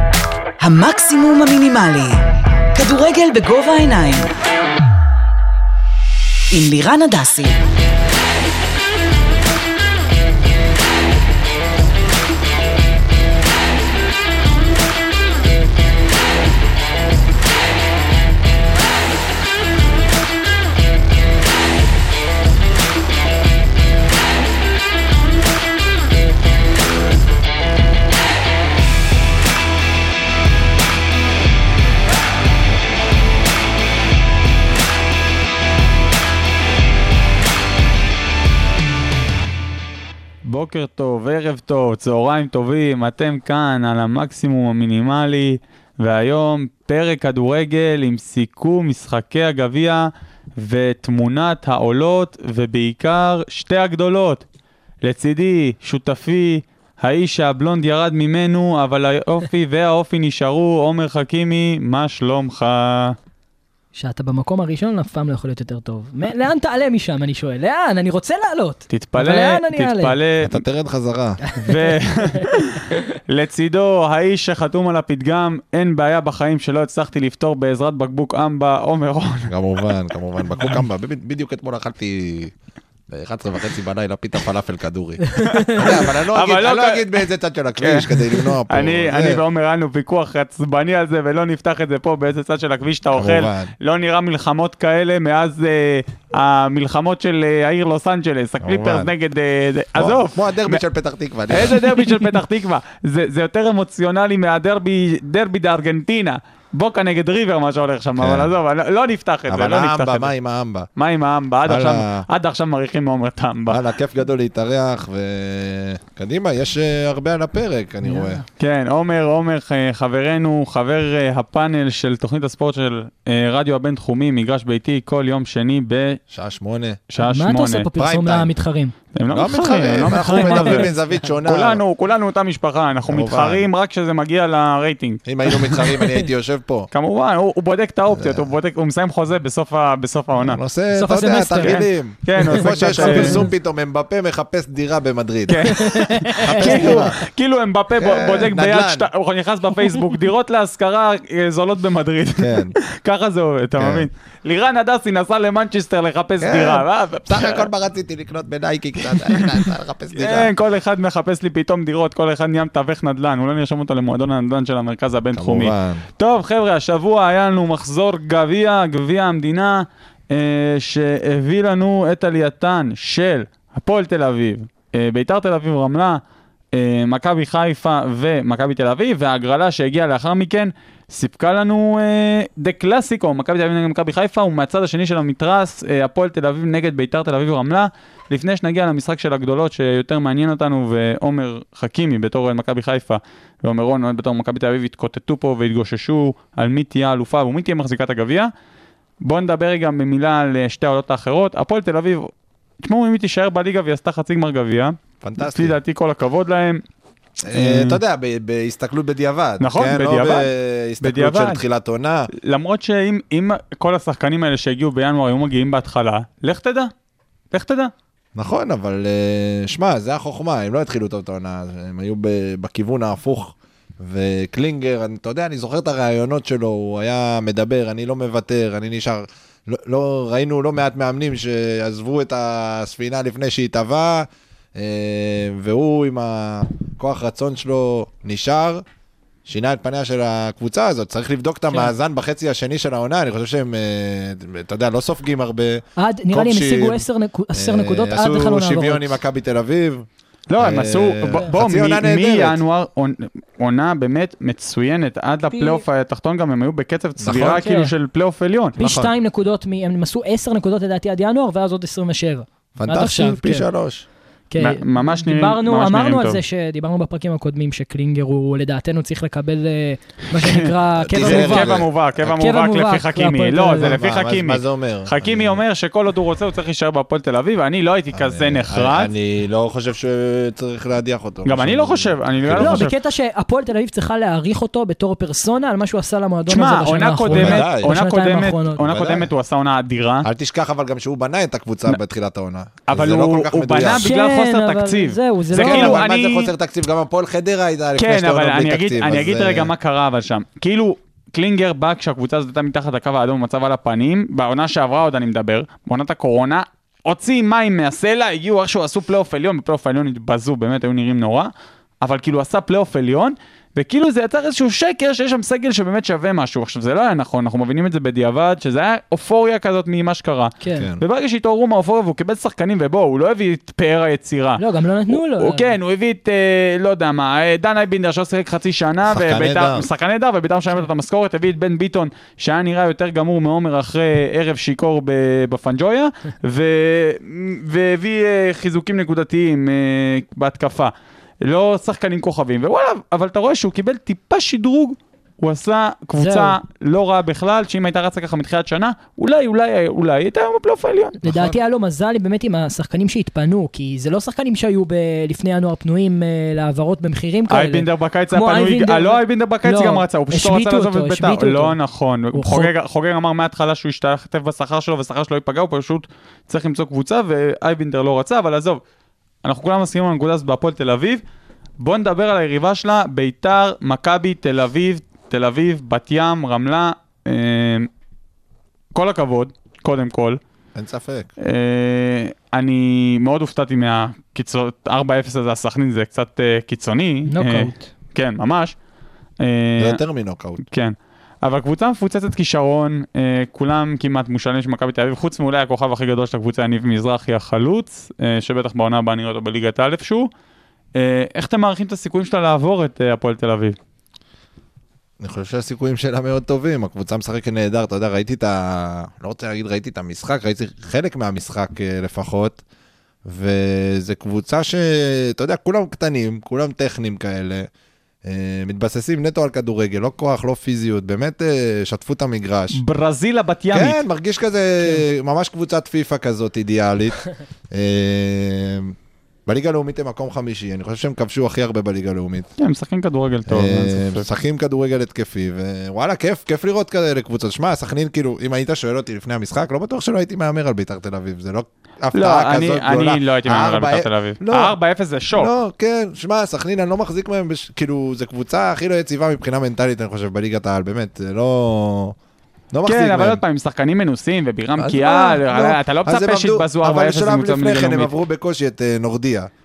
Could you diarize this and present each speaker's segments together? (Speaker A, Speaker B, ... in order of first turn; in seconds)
Speaker A: 0.6-2.2, 2.7-4.3, 6.5-7.6
Speaker B: 40.4-54.4, 55.0-63.2, 68.9-70.6, 71.6-79.9, 85.4-87.2, 87.8-100.8, 101.5-110.3, 111.0-113.8, 118.6-126.2, 127.1-127.9, 129.1-136.0, 136.9-140.6, 141.6-143.5, 145.5-157.7, 159.0-176.2, 176.7-198.5, 199.2-202.3, 202.8-206.8, 207.5-208.0, 209.6-210.5, 211.0-211.6, 212.3-216.9, 217.5-217.9, 250.5-258.8, 264.6-266.4, 270.3-279.1, 281.4-282.9, 286.5-290.3, 292.9-296.5, 298.0-311.5, 312.0-351.2, 357.5-368.8, 369.4-371.2, 371.8-377.9, 378.9-380.4, 381.4-388.8, 389.4-390.0, 390.7-400.3, 401.0-403.8, 422.7-424.0, 432.6-434.3, 442.1-445.5, 452.9-458.1
Speaker C: 63.9-70.2, 71.5-71.9, 85.4-85.7, 118.0-118.4, 127.2-128.9, 130.1-130.9, 140.9-141.8, 142.4-143.5, 145.7-147.1, 246.0-249.1, 255.5-255.8, 257.3-257.9, 258.8-263.7, 264.5-274.0, 282.5-288.8, 294.0-296.0, 320.6-320.9, 324.6-325.6, 346.2-346.6, 351.2-361.8, 362.3-362.7, 387.3-387.9
Speaker D: 70.4-71.4, 79.5-82.5, 83.1-89.4, 93.1-93.7, 98.6-99.1, 100.0-102.1, 108.2-108.5, 109.5-110.9, 111.7-112.2, 113.7-118.4, 126.3-127.0, 128.0-128.5, 129.3-131.8, 133.1-133.7, 135.2-136.9, 138.1-138.5, 140.4-147.2, 147.9-149.1, 152.4-152.8, 153.8-154.1, 156.4-160.5, 165.3-166.1, 205.2-205.8, 207.4-212.3, 218.4-238.8, 239.4-250.1, 250.6-252.6, 257.2-257.6, 258.8-259.1, 262.8-264.1, 271.0-271.9, 273.8-275.6, 278.1-282.9, 287.3-287.9, 288.8-289.3, 290.2-294.1, 295.5-299.7, 320.8-321.0, 329.1-329.9, 351.2-351.6, 380.8-381.3, 389.8-390.6, 405.2-412.6, 413.2-417.7, 418.2-422.8, 423.7-428.9, 429.5-432.5, 433.5-444.8, 445.4-452.1, 452.7-453.4, 454.8-459.5